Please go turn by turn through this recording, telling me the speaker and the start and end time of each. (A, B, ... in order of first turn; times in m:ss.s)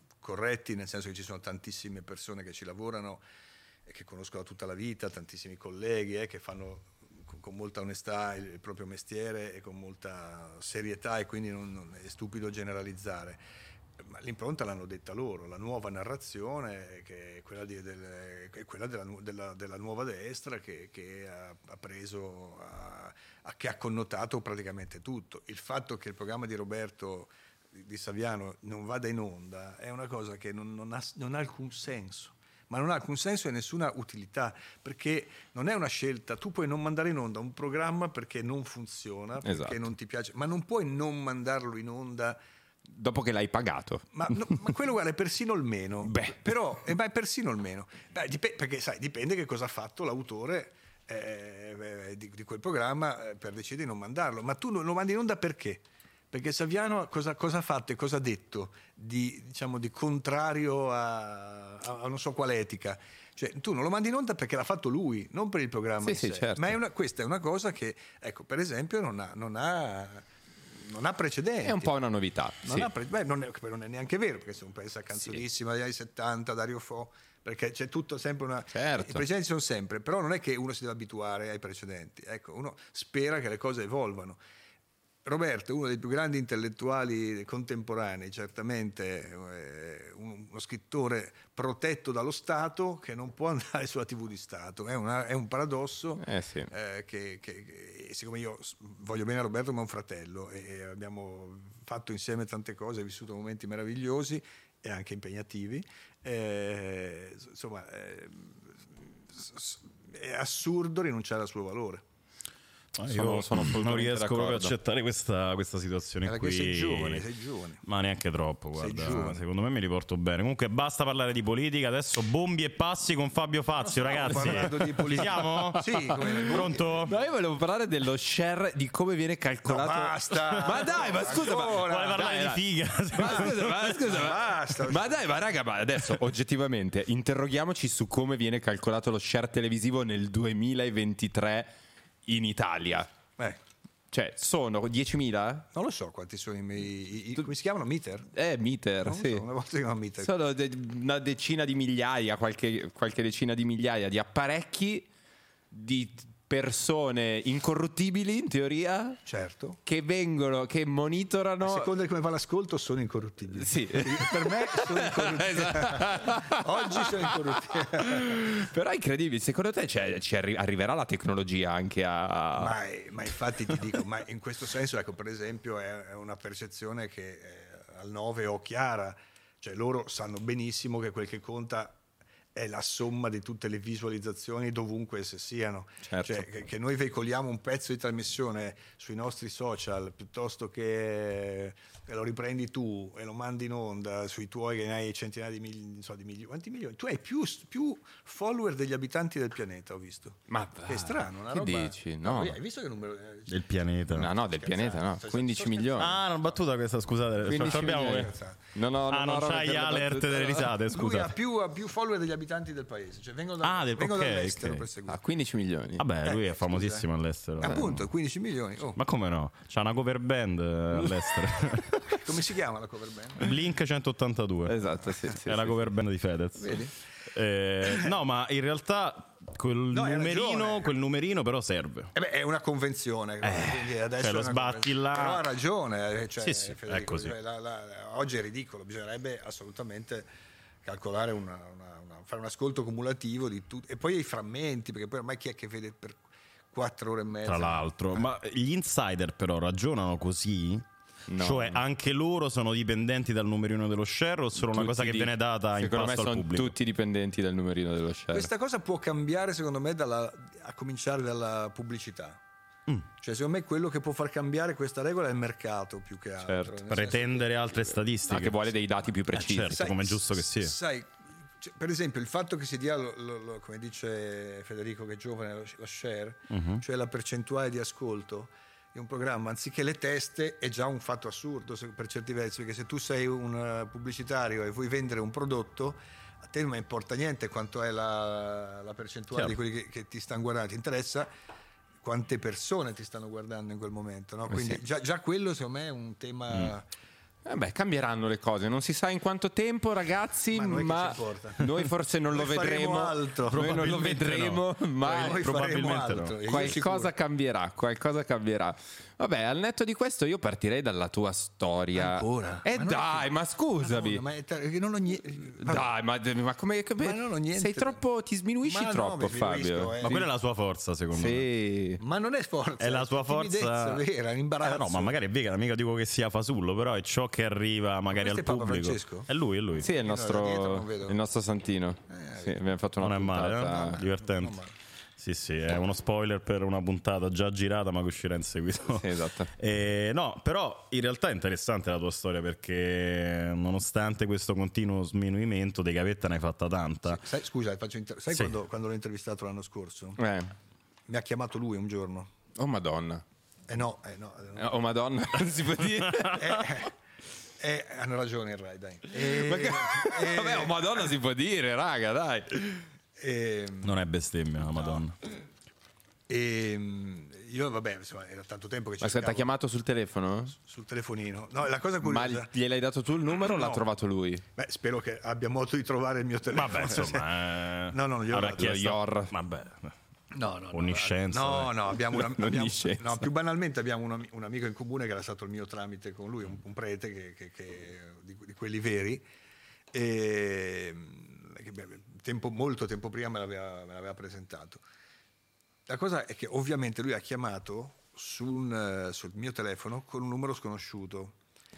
0:00.2-0:03.2 A
0:03.9-0:13.4 A
0:14.0-0:42.4 A
0:39.4-0:39.9 B
0:42.9-0:44.3 B
0:44.1-1:11.9 A
0:46.0-0:46.5 B
1:06.0-1:06.8 B
1:11.6-1:12.9 B
1:12.6-1:24.4 A
1:18.7-1:19.2 B
1:25.2-1:52.0 A
1:36.2-1:36.7 B
1:53.0-1:57.3 C
1:53.1-1:54.8 B
1:56.2-1:57.8 A
1:57.8-2:07.2 C
1:58.8-1:59.4 A
2:03.9-2:07.1 A
2:04.3-2:04.7 B
2:06.6-2:21.7 B
2:09.6-2:12.3 A
2:11.4-2:14.0 C
2:13.2-2:15.3 A
2:22.3-2:23.1 B
2:24.1-2:25.7 B
2:25.7-2:28.3 A
2:28.3-2:29.4 B
2:29.0-2:30.3 A
2:30.2-2:35.1 B
2:35.7-2:39.2 B
2:39.2-2:39.8 A
2:39.9-2:41.9 B
2:41.6-2:48.5 A
2:43.5-2:52.8 B
2:52.6-3:02.0 A
3:02.5-3:23.7 A
3:06.0-3:06.5 B
3:20.5-3:22.6 B
3:23.5-3:24.3 C
3:24.1-3:26.2 B
3:24.2-3:26.6 A
3:26.0-3:28.4 C
3:27.4-3:30.8 B
3:27.5-3:28.6 A
3:29.1-3:31.4 C
3:30.9-3:35.2 A
3:33.6-3:34.9 C
3:35.1-3:36.1 B
3:36.0-3:38.0 C
3:36.2-3:37.1 A
3:37.6-3:39.0 A
3:39.0-3:42.2 C
3:42.0-3:43.5 A
3:43.4-3:44.8 C
3:44.7-3:45.9 B
3:45.4-3:52.1 C
3:46.6-3:46.9 A
3:49.9-3:51.0 A
3:52.1-4:00.3 A
3:53.4-3:55.5 C
3:56.4-3:57.4 C
4:00.8-4:08.3 A
4:07.5-4:16.7 C
4:11.3-4:11.8 B
4:14.6-4:18.5 B
4:18.3-4:22.4 A
4:23.2-4:28.0 A
4:26.4-4:26.8 B
4:26.9-4:28.7 C
4:28.3-4:29.9 B
4:29.3-4:30.7 C
4:29.7-4:51.3 A
4:36.5-4:36.8 C
4:52.0-4:56.9 A
4:54.5-4:54.8 B
4:57.4-5:05.5 B
5:00.5-5:01.7 A
5:02.3-5:04.1 A
5:03.5-5:06.4 C
5:05.0-5:07.1 A
5:06.4-5:14.2 B
5:11.9-5:15.9 A
5:15.6-5:20.3 B
5:17.0-5:18.0 A
5:18.6-5:20.3 A
5:20.0-5:21.5 C
5:21.1-5:22.0 B
5:22.0-5:25.2 A
5:22.8-5:24.0 C
5:24.6-5:29.9 C
5:28.1-5:29.3 A
5:29.8-5:34.0 B
5:29.9-5:31.2 A
5:32.1-5:32.6 A
5:33.0-5:34.6 C
5:33.7-5:34.7 A
5:35.2-5:47.2 C
5:38.9-5:39.5 B
5:47.1-5:50.2 A
5:50.2-5:50.5 B
5:51.1-5:52.3 A
5:52.6-5:53.2 B
5:53.7-5:54.8 A
5:54.6-5:56.8 B
5:56.3-5:56.9 A
5:57.6-6:01.1 A
5:59.2-6:02.8 B
6:03.2-6:04.0 A
6:03.8-6:05.2 C
6:04.7-6:05.0 A
6:06.3-6:09.5 A
6:09.0-6:10.6 B
6:10.6-6:12.5 A
6:12.0-6:14.4 B
6:13.5-6:13.9 A
6:14.6-6:17.3 A
6:16.5-6:19.9 C
6:17.9-6:18.8 A
6:18.5-6:19.3 B
6:20.3-6:29.2 A
6:20.7-6:21.8 C
6:22.1-6:23.3 B
6:29.9-6:34.8 A
6:35.9-6:41.4 A